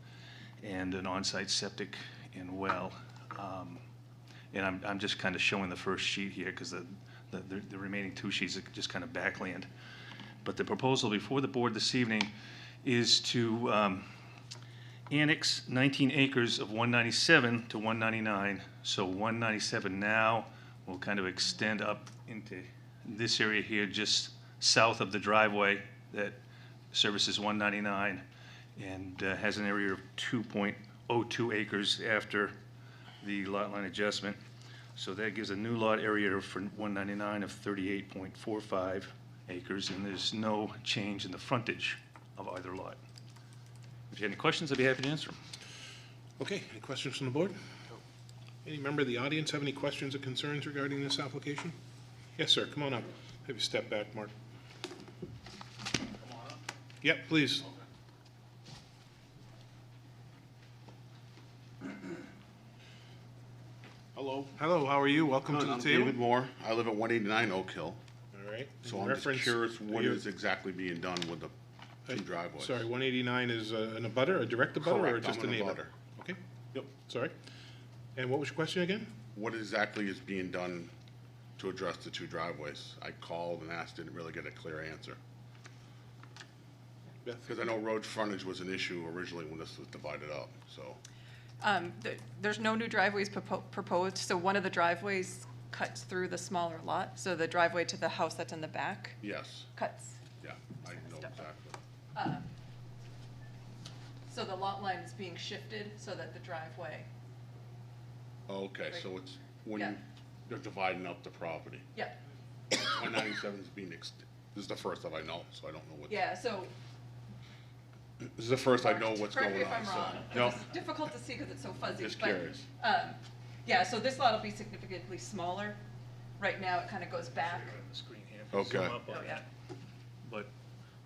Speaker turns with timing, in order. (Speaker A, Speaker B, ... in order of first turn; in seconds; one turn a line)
Speaker A: 0.6-3.8
Speaker A: 4.5-9.7
Speaker A: 10.4-12.3
Speaker A: 12.8-14.1
Speaker A: 15.1-26.4
Speaker A: 26.9-28.2
Speaker A: 28.8-32.5
Speaker A: 33.2-34.4
Speaker A: 35.0-43.0
Speaker A: 44.1-45.4
Speaker B: 46.4-47.5
Speaker B: 48.6-51.8
Speaker B: 52.4-54.3
Speaker B: 57.0-57.7
Speaker C: 64.2-64.4
Speaker B: 64.5-66.2
Speaker C: 65.5-68.0
Speaker B: 68.3-70.2
Speaker C: 68.8-71.5
Speaker B: 72.1-77.3
Speaker C: 72.1-72.9
Speaker C: 74.8-75.9
Speaker B: 78.2-79.2
Speaker C: 79.3-80.9
Speaker C: 81.6-85.2
Speaker B: 87.2-87.7
Speaker C: 87.5-91.0
Speaker D: 91.6-99.2
Speaker C: 99.2-99.7
Speaker D: 99.8-100.2
Speaker C: 100.4-101.8
Speaker D: 102.2-102.5
Speaker D: 104.3-107.1
Speaker C: 108.5-111.9
Speaker C: 112.7-116.2
Speaker D: 116.1-116.7
Speaker C: 118.2-120.7
Speaker D: 118.7-125.8
Speaker C: 122.0-122.6
Speaker D: 126.4-127.7
Speaker A: 127.3-129.5
Speaker C: 128.5-129.0
Speaker D: 129.1-129.4
Speaker A: 130.2-130.5